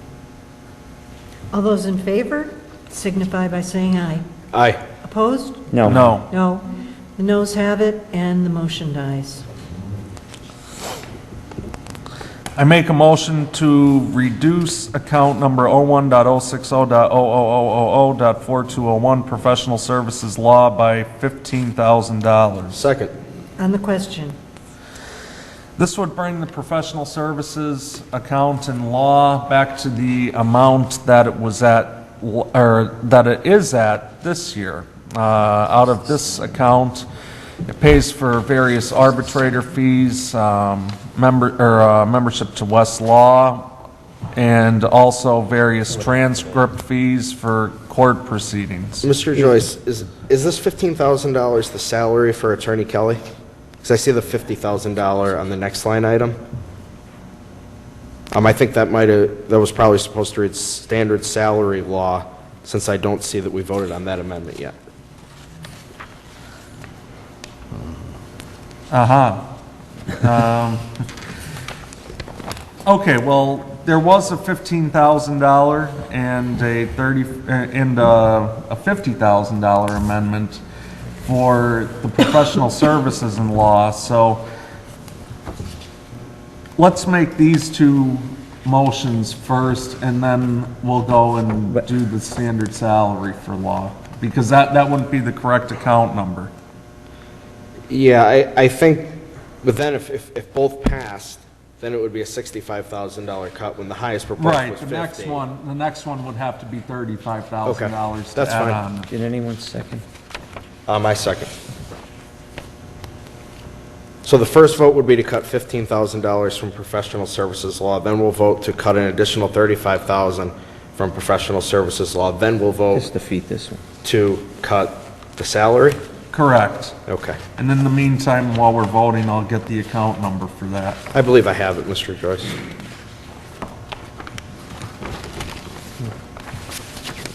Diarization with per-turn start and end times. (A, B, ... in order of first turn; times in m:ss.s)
0:01.5-0:04.2 A
0:04.5-0:04.8 B
0:05.0-0:05.7 A
0:05.7-0:06.2 C
0:05.8-0:06.3 D
0:06.3-0:09.4 A
0:12.6-0:22.8 D
0:22.7-0:23.1 B
0:23.6-0:24.4 A
0:25.8-0:37.1 D
0:37.7-0:43.7 D
0:44.4-0:49.1 D
0:49.0-0:53.2 B
0:53.8-0:56.4 B
0:58.3-1:04.7 B
1:08.9-1:09.5 D
1:10.2-1:11.0 D
1:12.8-1:20.6 D
1:21.2-1:24.4 D
1:26.8-1:36.5 D
1:37.9-1:45.4 B
1:44.4-1:49.1 D
1:47.6-1:48.8 B
1:49.1-1:50.0 C
1:50.9-1:51.5 B
1:54.2-2:03.1 B
2:02.9-2:03.8 C
2:04.0-2:06.0 B
2:06.3-2:07.0 D
2:07.1-2:07.4 B
2:07.6-2:11.0 D
2:11.1-2:12.6 B